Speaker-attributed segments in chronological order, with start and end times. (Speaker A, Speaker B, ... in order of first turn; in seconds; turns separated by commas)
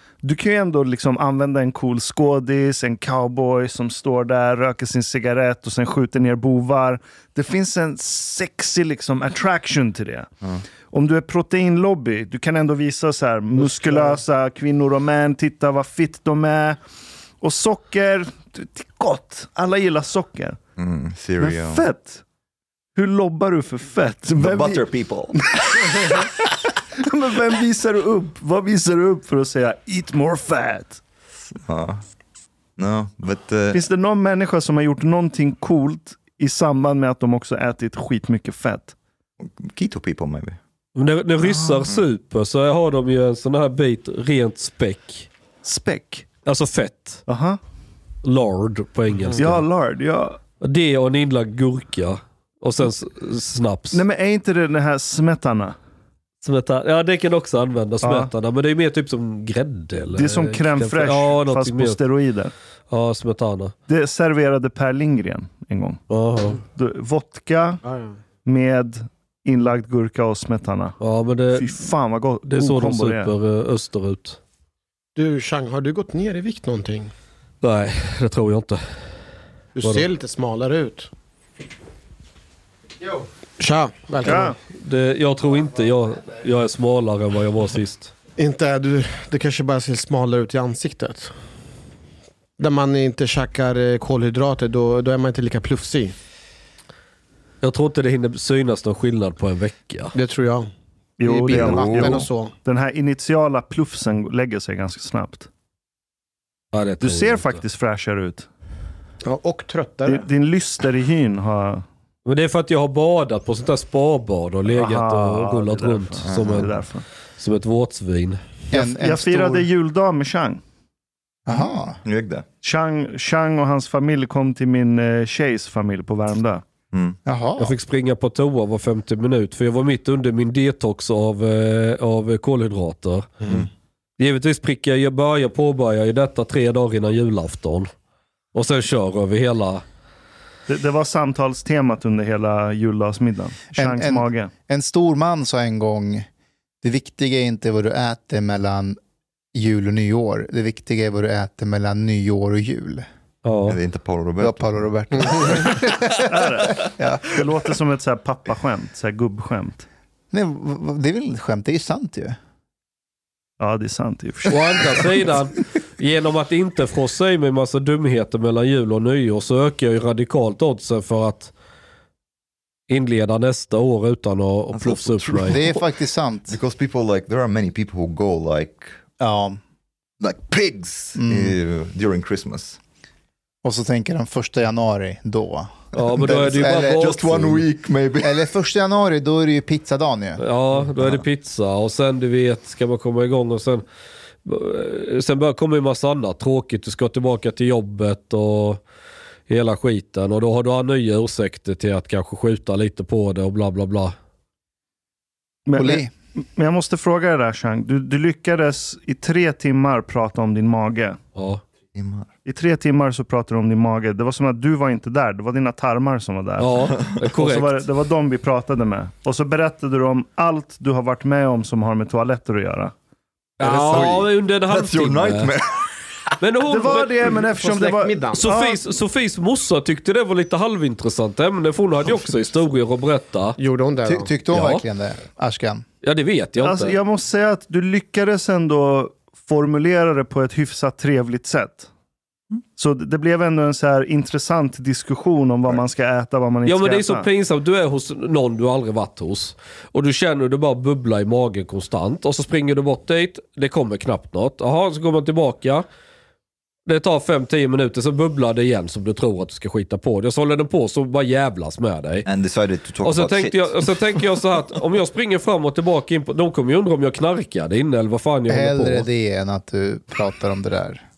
Speaker A: 0.2-10.3, Speaker A: 10.9-16.8, Speaker B: 13.6-14.2, Speaker A: 17.4-20.6, Speaker C: 20.8-21.8, Speaker A: 21.4-22.2, Speaker A: 22.9-24.8, Speaker C: 24.4-26.3, Speaker A: 25.5-26.4, Speaker A: 26.9-31.0, Speaker C: 31.6-32.0, Speaker C: 32.8-33.8, Speaker A: 33.7-38.9, Speaker C: 39.4-40.6, Speaker D: 40.9-45.3, Speaker C: 41.4-42.0, Speaker A: 45.6-46.2, Speaker D: 46.5-47.2, Speaker A: 47.3-47.6, Speaker D: 48.2-49.6, Speaker A: 49.4-50.4, Speaker D: 50.6-54.0, Speaker A: 53.9-55.8, Speaker D: 56.4-62.0, Speaker A: 58.0-58.3, Speaker A: 60.1-62.5, Speaker D: 62.9-63.7, Speaker A: 63.9-66.0, Speaker D: 66.1-66.6, Speaker A: 66.6-67.8, Speaker B: 67.8-68.2, Speaker A: 68.4-71.0, Speaker D: 71.0-71.8, Speaker A: 71.5-73.3, Speaker D: 72.4-74.4, Speaker B: 75.1-77.1, Speaker D: 77.6-78.8, Speaker B: 79.8-81.1, Speaker D: 79.8-80.1, Speaker B: 83.1-84.5, Speaker A: 84.2-84.5, Speaker D: 84.2-88.1, Speaker B: 88.4-91.3, Speaker B: 92.6-96.1, Speaker D: 97.6-100.1, Speaker B: 100.1-100.7, Speaker A: 101.2-105.5, Speaker B: 101.2-102.5, Speaker C: 101.5-102.3, Speaker D: 106.7-107.6, Speaker A: 107.0-108.5, Speaker B: 109.2-110.3, Speaker A: 110.0-111.8, Speaker D: 112.2-116.7, Speaker A: 114.7-117.0, Speaker C: 116.2-116.7, Speaker D: 117.4-118.4, Speaker E: 118.7-119.7, Speaker A: 118.7-120.6, Speaker E: 121.5-122.0, Speaker C: 122.0-122.4, Speaker A: 122.6-126.6, Speaker C: 126.9-127.2, Speaker E: 127.2-127.8, Speaker D: 127.6-133.3, Speaker D: 134.2-137.9, Speaker D: 138.5-139.8, Speaker A: 140.7-144.5, Speaker E: 143.8-146.3, Speaker E: 146.8-149.0, Speaker E: 149.5-153.1, Speaker D: 153.4-153.8, Speaker C: 153.7-155.8, Speaker E: 154.4-157.4, Speaker A: 156.3-159.8, Speaker E: 160.3-162.4, Speaker A: 163.6-165.0, Speaker D: 164.5-171.5, Speaker D: 172.9-175.6, Speaker C: 174.7-175.8, Speaker E: 175.5-176.6, Speaker C: 176.5-179.0, Speaker E: 179.2-179.6, Speaker C: 180.2-182.8, Speaker E: 181.2-181.6, Speaker E: 183.6-187.4, Speaker D: 185.9-187.6, Speaker C: 186.3-188.4, Speaker E: 188.2-190.4, Speaker D: 190.4-193.8, Speaker D: 194.4-198.8, Speaker D: 199.5-204.1, Speaker A: 205.7-211.2, Speaker E: 205.8-206.1, Speaker D: 211.3-211.6, Speaker C: 211.9-212.3, Speaker A: 212.4-222.9, Speaker D: 216.6-217.8, Speaker D: 223.6-225.5, Speaker C: 223.6-225.9, Speaker B: 223.6-224.1, Speaker D: 226.4-227.4, Speaker A: 226.7-228.9, Speaker B: 227.3-228.5, Speaker D: 228.3-233.6, Speaker B: 233.6-234.3, Speaker E: 234.0-235.8, Speaker D: 234.5-234.8, Speaker D: 236.0-237.0, Speaker A: 236.6-241.9, Speaker A: 242.8-247.3, Speaker D: 246.7-255.8, Speaker D: 256.9-262.2, Speaker C: 262.2-263.9, Speaker D: 263.0-269.1, Speaker E: 268.5-271.0